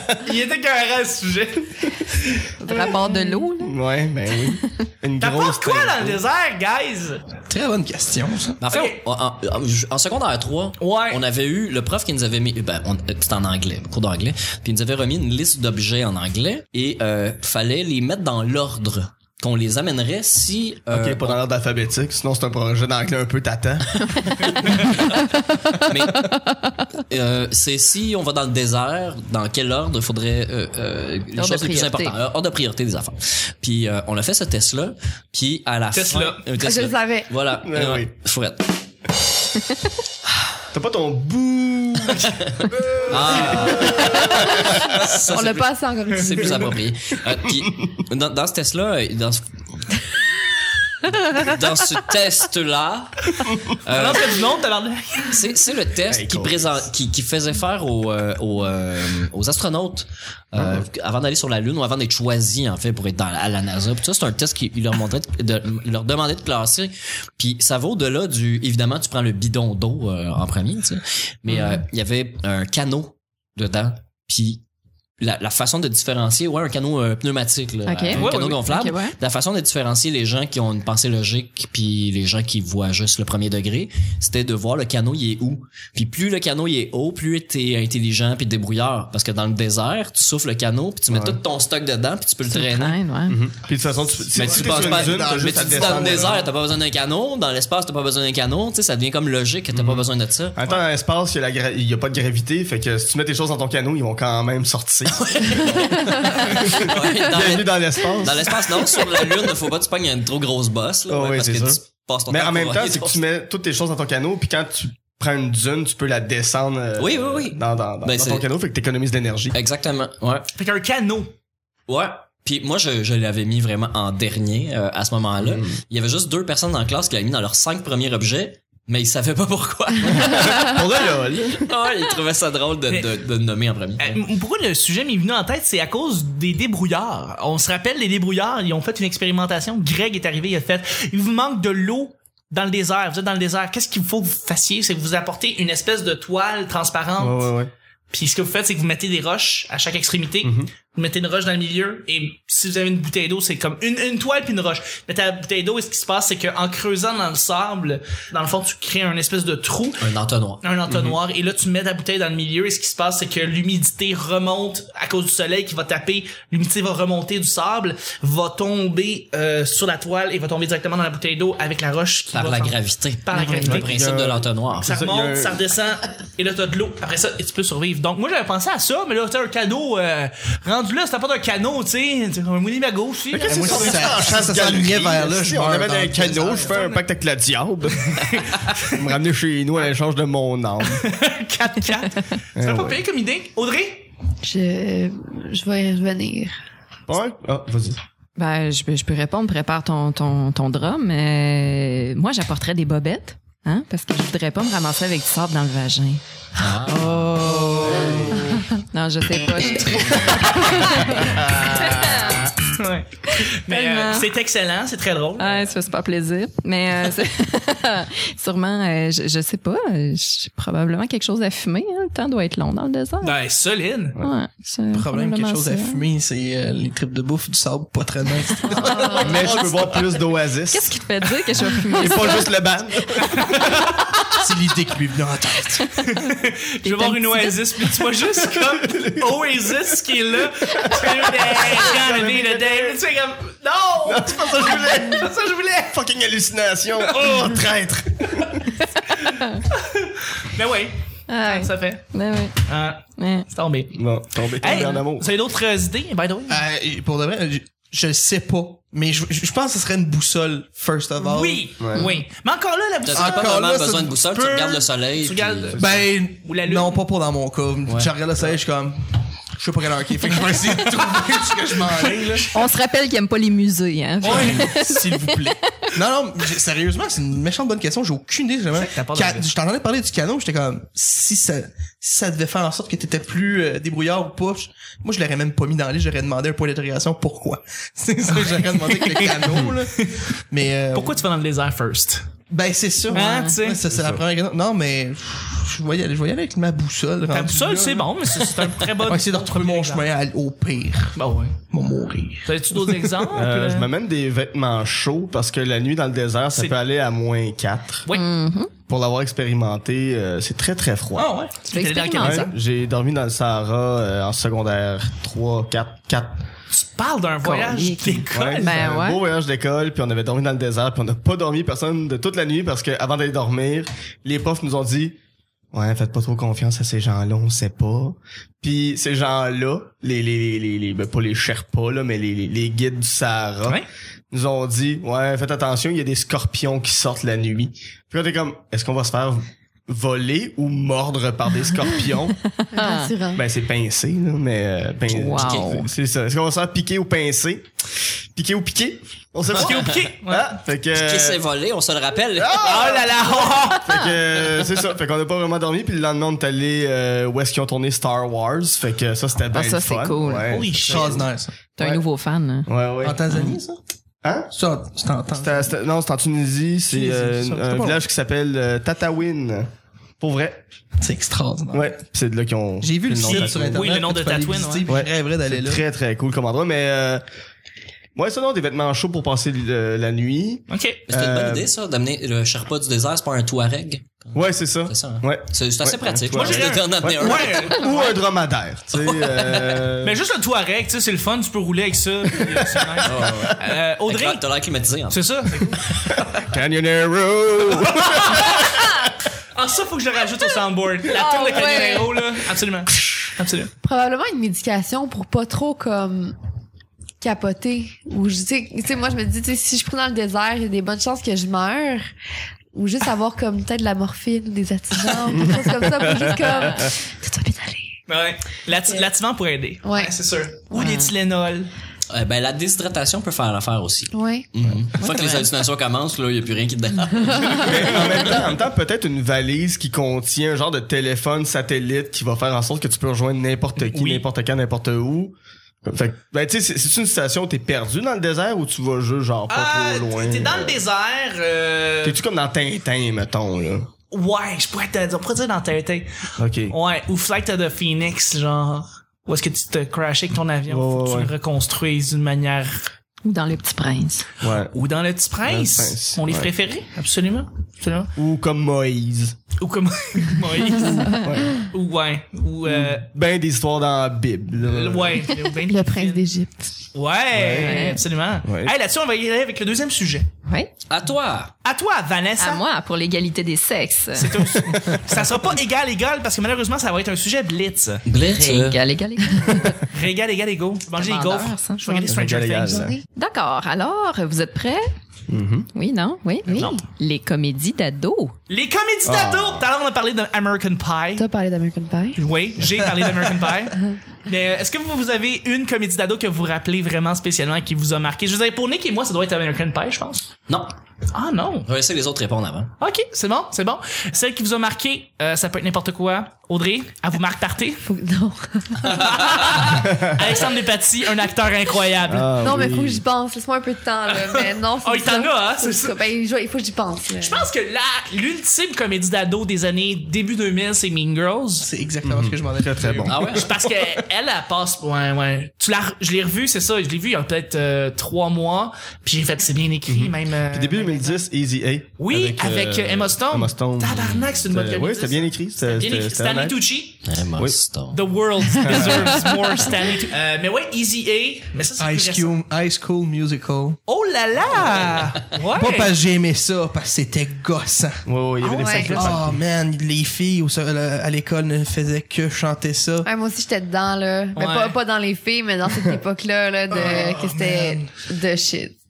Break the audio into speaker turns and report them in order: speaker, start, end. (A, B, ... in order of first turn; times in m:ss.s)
0:00.2-0:02.4 A
0:02.6-0:03.8 B
0:03.6-0:06.2 C
0:05.2-0:07.2 A
0:07.5-0:08.6 D
0:08.6-0:21.4 E
0:08.7-0:09.0 A
0:10.8-0:11.2 A
0:20.9-0:24.5 C
0:24.7-0:25.2 E
0:25.4-0:26.8 B
0:25.8-0:26.3 E
0:27.0-0:38.6 E
0:31.4-0:32.2 B
0:35.9-0:36.4 A
0:36.6-0:37.3 F
0:37.6-0:38.1 C
0:40.7-0:45.1 C
0:43.1-0:49.4 E
0:43.9-0:44.6 F
0:45.3-0:46.8 F
0:51.1-0:54.5 E
0:53.9-0:55.4 A
0:55.3-1:14.6 E
0:56.1-0:56.8 C
1:00.5-1:00.8 C
1:11.5-1:11.8 B
1:15.2-1:33.0 E
1:17.8-1:19.2 B
1:18.1-1:18.7 A
1:31.1-1:31.4 C
1:32.5-1:33.4 B
1:33.3-1:36.4 C
1:34.3-1:40.8 E
1:34.3-1:36.4 D
1:39.7-1:48.7 C
1:45.2-1:53.2 E
1:51.1-1:59.6 C
1:57.0-1:58.5 E
1:59.5-2:00.5 E
2:00.6-2:01.3 A
2:01.9-2:10.9 E
2:05.4-2:05.7 C
2:10.0-2:11.6 C
2:11.6-2:14.2 E
2:14.0-2:27.5 A
2:27.2-2:27.7 C
2:28.1-2:40.1 A
2:30.4-2:30.7 C
2:40.0-2:40.6 E
2:40.6-2:53.9 A
2:52.3-2:54.9 E
2:53.3-2:55.6 C
2:54.8-3:04.7 A
3:03.3-3:11.0 C
3:03.4-3:06.8 D
3:06.5-3:07.0 A
3:08.2-3:08.9 A
3:10.9-3:14.1 A
3:12.5-3:13.0 C
3:14.4-3:16.6 F
3:17.1-3:18.0 C
3:18.4-3:26.2 B
3:26.6-3:27.3 E
3:26.8-3:32.6 B
3:27.4-3:28.3 D
3:27.8-3:28.6 C
3:31.2-3:31.9 C
3:32.7-3:35.7 A
3:33.3-3:34.3 B
3:35.4-3:43.4 B
3:43.2-3:44.2 A
3:44.2-3:46.0 B
3:44.9-3:49.3 D
3:48.7-3:49.8 B
3:48.7-3:51.0 C
3:50.7-3:52.5 B
3:51.9-3:53.5 C
3:53.2-3:54.0 A
3:54.4-3:55.9 D
3:56.0-4:06.0 A
3:56.0-3:57.9 B
3:58.4-3:59.7 C
4:00.7-4:03.0 C
4:04.0-4:05.3 C
4:05.9-4:08.7 C
4:07.0-4:07.4 A
4:09.2-4:12.0 A
4:11.3-4:13.4 B
4:12.6-4:14.0 A
4:13.9-4:15.3 C
4:14.6-4:16.6 A
4:16.5-4:21.7 D
4:21.2-4:23.5 A
4:21.8-4:22.0 C
4:23.0-4:25.9 E
4:23.1-4:24.2 D
4:24.2-4:25.8 A
4:25.8-4:32.5 D
4:25.8-4:26.0 C
4:26.3-4:27.0 A
4:31.1-4:32.6 A
4:32.5-4:36.0 B
4:34.2-4:51.2 D
4:34.2-4:34.7 A
4:38.7-4:39.5 A
4:48.4-4:50.2 A
4:50.9-4:52.3 A
4:52.5-5:01.2 D
4:53.1-4:53.8 A
4:53.1-4:53.5 B
4:53.9-4:54.2 C
4:57.3-5:00.0 A
5:01.1-5:01.6 A
5:01.7-5:03.2 D
5:02.4-5:03.9 A
5:03.3-5:08.0 C
5:08.1-5:08.7 B
5:08.9-5:11.3 C
5:11.2-5:11.5 D
5:11.6-5:12.5 A
5:11.6-5:12.5 B
5:12.2-5:16.4 C
5:16.7-5:18.8 A
5:17.4-5:19.2 B
5:18.3-5:25.2 C
5:25.7-5:42.4 C
5:41.8-5:43.1 B
5:42.7-5:43.4 F
5:43.3-5:47.6 C
5:45.1-5:45.9 B
5:45.4-5:45.7 E
5:48.3-5:51.4 C
5:49.5-5:50.6 A
5:50.9-5:52.9 E
5:52.4-6:01.3 C
5:52.6-5:54.1 A
5:59.5-6:00.5 B
6:00.5-6:01.2 A
6:00.9-6:01.7 D
6:01.8-6:02.7 B
6:02.7-6:03.2 C
6:03.0-6:03.8 D
6:04.2-6:04.5 C
6:04.5-6:05.7 D
6:05.3-6:10.6 C
6:06.9-6:08.0 D
6:11.0-6:12.0 D
6:11.7-6:13.8 C
6:12.8-6:15.8 D
6:13.2-6:14.9 A
6:14.9-6:17.2 C
6:18.2-6:21.7 C
6:20.7-6:21.0 A
6:21.1-6:27.8 E
6:24.3-6:30.2 C
6:26.3-6:28.1 A
6:30.0-6:34.4 A
6:32.4-6:33.5 C
6:33.0-6:35.4 E
6:35.1-6:36.2 A
6:36.4-6:39.0 C
6:37.9-6:38.7 A
6:39.5-6:43.7 A
6:41.1-6:42.2 B
6:43.8-6:46.3 F
6:47.2-6:52.1 F
6:52.7-6:58.0 F
6:55.4-6:56.9 C
6:58.1-7:01.7 A
6:59.8-7:00.1 F
7:00.7-7:01.1 B
7:02.1-7:08.5 E
7:04.1-7:04.4 F
7:05.0-7:05.5 B
7:07.6-7:20.8 C
7:13.8-7:14.2 A
7:19.5-7:22.2 A
7:22.0-7:23.9 C
7:24.1-7:26.1 A
7:26.4-7:26.8 C
7:26.7-7:32.9 A
7:30.7-7:31.3 C
7:33.2-7:34.3 B
7:34.4-7:34.7 C
7:34.6-7:38.1 A
7:35.4-7:36.5 C
7:38.2-7:39.4 C
7:39.6-7:43.1 A
7:40.9-7:41.2 B
7:41.1-7:41.6 C
7:42.6-7:45.3 C
7:44.6-7:46.2 A
7:45.7-7:46.7 F
7:46.9-7:50.3 A
7:47.3-7:47.8 C
7:47.5-7:48.0 B
7:48.4-7:48.7 C
7:50.4-7:50.7 B
7:50.9-7:51.5 E
7:51.6-7:52.6 A
7:52.4-7:54.6 B
7:54.1-7:58.0 A
7:54.7-7:55.3 C
7:58.0-7:58.8 E
7:58.2-7:59.8 B
7:59.9-8:02.9 A
8:00.9-8:01.8 B
8:01.9-8:03.0 F
8:02.0-8:02.9 C
8:03.1-8:04.8 B
8:05.3-8:05.7 C
8:05.7-8:08.3 B
8:06.5-8:06.8 A
8:08.5-8:11.2 A
8:09.0-8:09.7 C
8:11.2-8:12.2 F
8:12.2-8:20.3 A
8:20.5-8:20.7 E
8:21.1-8:21.7 A
8:21.6-8:22.7 E
8:22.8-8:27.8 A
8:27.8-8:29.4 F
8:28.8-8:32.6 A
8:29.8-8:30.2 C
8:32.1-8:33.0 C
8:32.4-8:37.4 F
8:34.1-8:36.0 A
8:37.2-8:41.7 A
8:41.6-8:43.2 D
8:42.0-8:43.7 C
8:43.0-8:43.6 E
8:43.3-8:51.2 A
8:49.9-8:56.6 C
8:52.0-8:57.0 A
8:57.0-8:58.0 E
8:57.9-9:02.3 A
8:58.6-8:59.3 C
9:01.8-9:03.8 D
9:03.9-9:05.9 A
9:05.5-9:08.0 D
9:08.0-9:09.4 C
9:08.4-9:09.1 A
9:08.4-9:09.1 F
9:08.9-9:13.1 D
9:13.0-9:18.7 F
9:14.4-9:14.8 A
9:16.7-9:17.8 A
9:16.8-9:17.6 D